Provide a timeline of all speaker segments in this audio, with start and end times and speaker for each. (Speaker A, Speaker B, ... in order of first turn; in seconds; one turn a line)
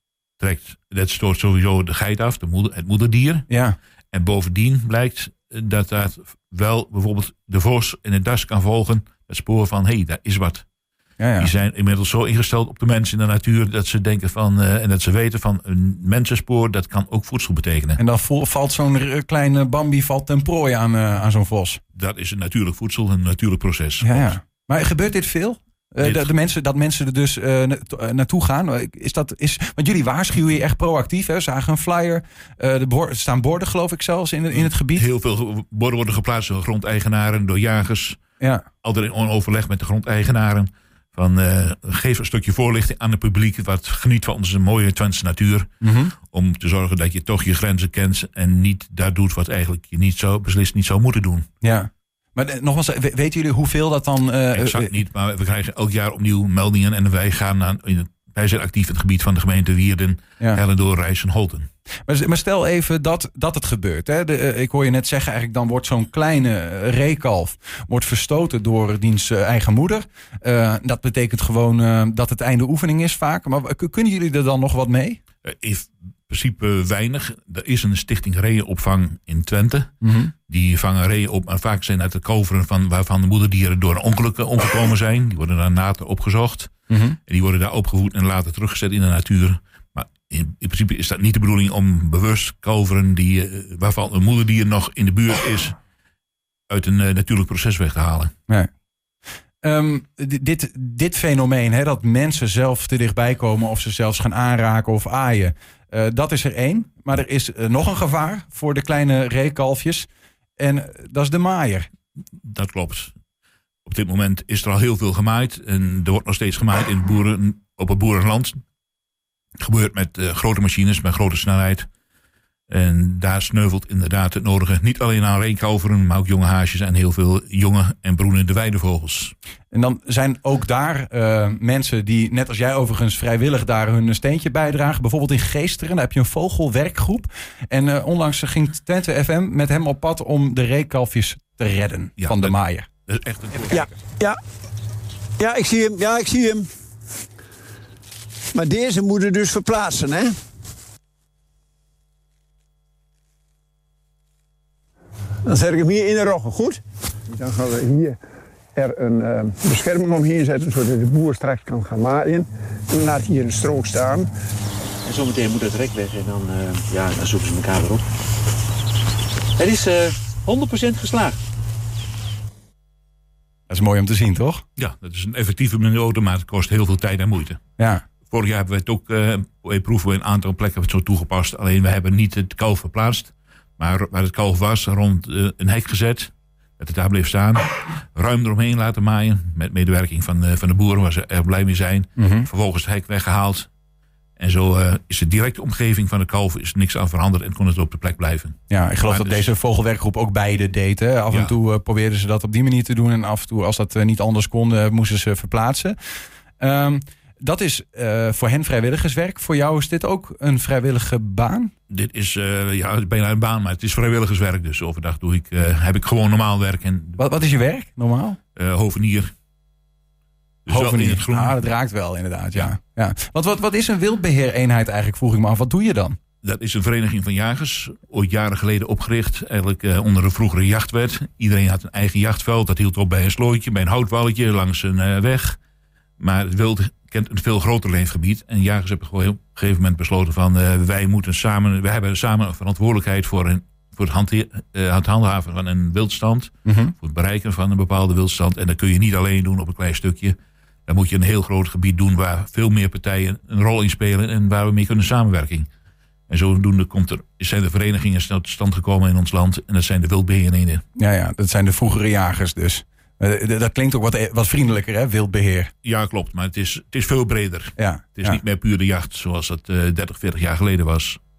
Speaker A: 0.4-3.5
Speaker B: 3.5-3.8
Speaker A: 4.1-10.6
Speaker B: 11.2-11.5
Speaker A: 11.4-18.0
Speaker B: 18.0-21.8
Speaker A: 21.9-24.3
Speaker B: 24.0-35.1
Speaker A: 26.0-26.3
Speaker A: 34.6-38.2
Speaker B: 38.4-38.6
Speaker A: 38.8-51.5
Speaker B: 45.8-46.1
Speaker B: 51.6-54.9
Speaker A: 54.5-61.7
Speaker B: 62.1-75.2
Speaker A: 75.4-79.9
Speaker B: 80.0-80.3
Speaker A: 80.5-86.7
Speaker B: 86.9-87.2
Speaker A: 87.2-95.7
Speaker A: 96.7-98.3
Speaker B: 99.6-110.1
Speaker B: 110.6-111.9
Speaker A: 112.4-113.1
Speaker A: 113.8-118.6
Speaker A: 119.6-121.9
Speaker A: 122.7-129.3
Speaker B: 129.7-142.9
Speaker A: 142.2-142.5
Speaker A: 143.1-143.9
Speaker C: 143.7-144.4
Speaker C: 145.4-146.7
Speaker C: 148.5-150.4
Speaker C: 155.4-158.2
Speaker C: 158.7-164.3
Speaker D: 165.0-168.1
Speaker D: 169.6-171.4
Speaker B: 173.7-174.6
Speaker A: 174.8-177.6
Speaker B: 177.8-178.0
Speaker A: 178.3-193.7
Speaker B: 192.2-192.5
Speaker A: 194.4-199.5
Speaker B: 198.7-205.9
Speaker B: 206.6-211.7
Speaker A: 211.9-217.2
Speaker B: 217.2-218.4
Speaker A: 218.6-219.3
Speaker A: 220.6-221.6
Speaker B: 220.7-226.2
Speaker A: 226.4-235.6
Speaker A: 236.2-250.3
Speaker B: 246.7-246.9
Speaker A: 250.9-255.7
Speaker A: 256.3-260.8
Speaker B: 260.9-265.7
Speaker A: 265.8-271.2
Speaker B: 267.8-268.4